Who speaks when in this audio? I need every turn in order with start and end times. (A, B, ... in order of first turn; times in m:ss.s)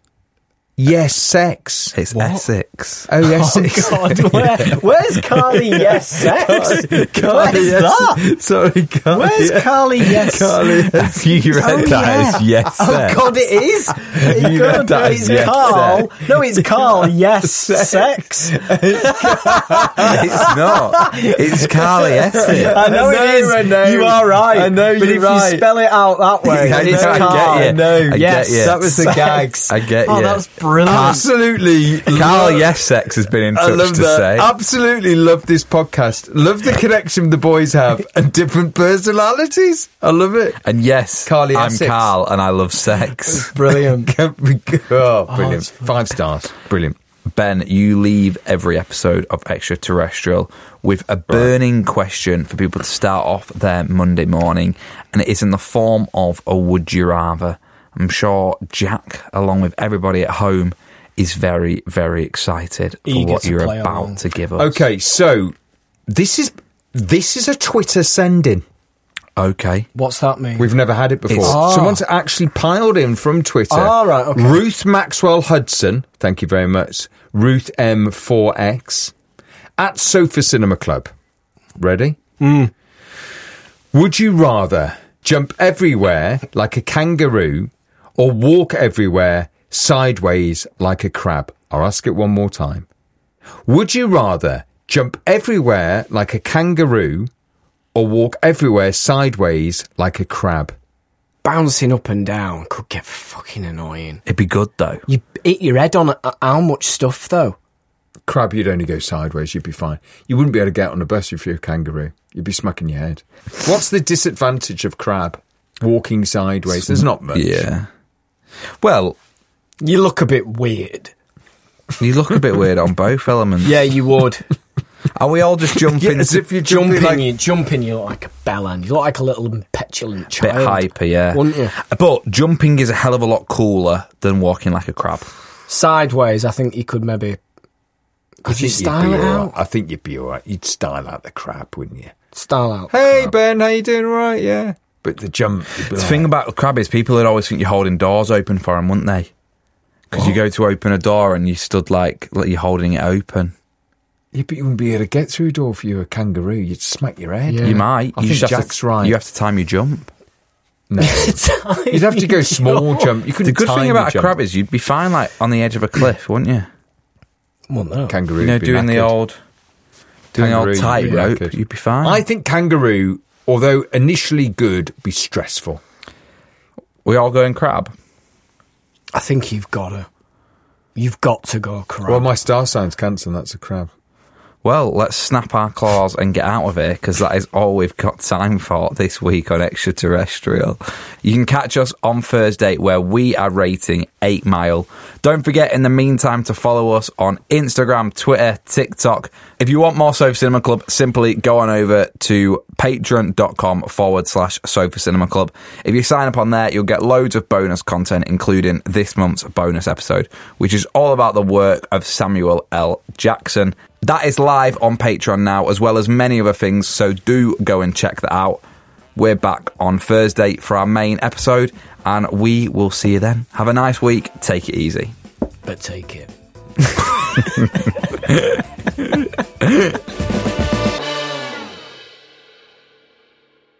0:00.8-0:01.9 A
0:01.9-0:03.1 B
0:02.1-0:02.4 C
0:03.1-0:21.0 A
0:03.2-0:08.2 C
0:09.1-0:10.6 C
0:10.9-0:13.2 B
0:11.5-0:31.2 C
0:14.9-0:16.1 B
0:20.0-0:22.8 B
0:22.4-0:25.8 A
0:26.4-0:29.6 A
0:26.7-0:29.1 B
0:29.7-0:31.2 B
0:30.8-0:32.8 A
0:32.1-0:34.5 B
0:33.5-0:40.6 A
0:40.6-0:43.5 B
0:41.2-0:42.1 A
0:43.3-0:44.1 C
0:43.7-0:47.0 A
0:45.3-0:46.0 C
0:47.3-1:04.8 B
1:03.0-1:04.2 C
1:04.6-1:05.5 A
1:06.1-1:08.6 A
1:09.4-1:09.9 B
1:09.9-1:10.7 C
1:10.6-1:19.1 A
1:11.3-1:11.6 B
1:11.4-1:12.0 C
1:13.7-1:14.6 C
1:19.8-1:21.1 A
1:21.8-1:22.2 A
1:22.4-1:22.7 C
1:23.9-1:32.9 A
1:33.6-1:37.3 A
1:37.9-1:40.7 A
1:41.4-1:44.2 C
1:44.3-1:45.0 B
1:45.1-1:47.6 C
1:48.2-1:57.6 A
1:57.3-1:57.9 B
1:58.8-1:59.2 B
1:59.8-2:01.1 C
2:02.0-2:03.9 B
2:03.6-2:04.4 C
2:05.2-2:06.4 B
2:05.8-2:07.3 A
2:06.6-2:11.7 C
2:10.4-2:15.3 B
2:15.7-2:17.4 C
2:18.4-2:19.5 C
2:18.4-2:22.1 A
2:22.3-2:23.2 C
2:22.9-2:26.3 A
2:25.9-2:29.3 B
2:30.1-2:33.5 B
2:34.3-2:39.2 A
2:37.5-2:37.8 C
2:37.6-2:40.1 B
2:40.9-2:44.3 A
2:41.0-2:43.1 C
2:43.4-2:46.7 B
2:47.7-2:48.2 C
2:48.1-2:49.1 A
2:48.4-2:49.4 B
2:50.3-2:52.2 B
2:50.3-2:55.8 A
2:51.0-2:51.2 C
2:57.0-2:57.9 B
2:59.1-3:00.1 C
3:01.0-3:02.3 C
3:02.0-3:03.9 A
3:04.6-3:38.6 B
3:39.1-3:45.1 B
3:45.6-3:46.3 C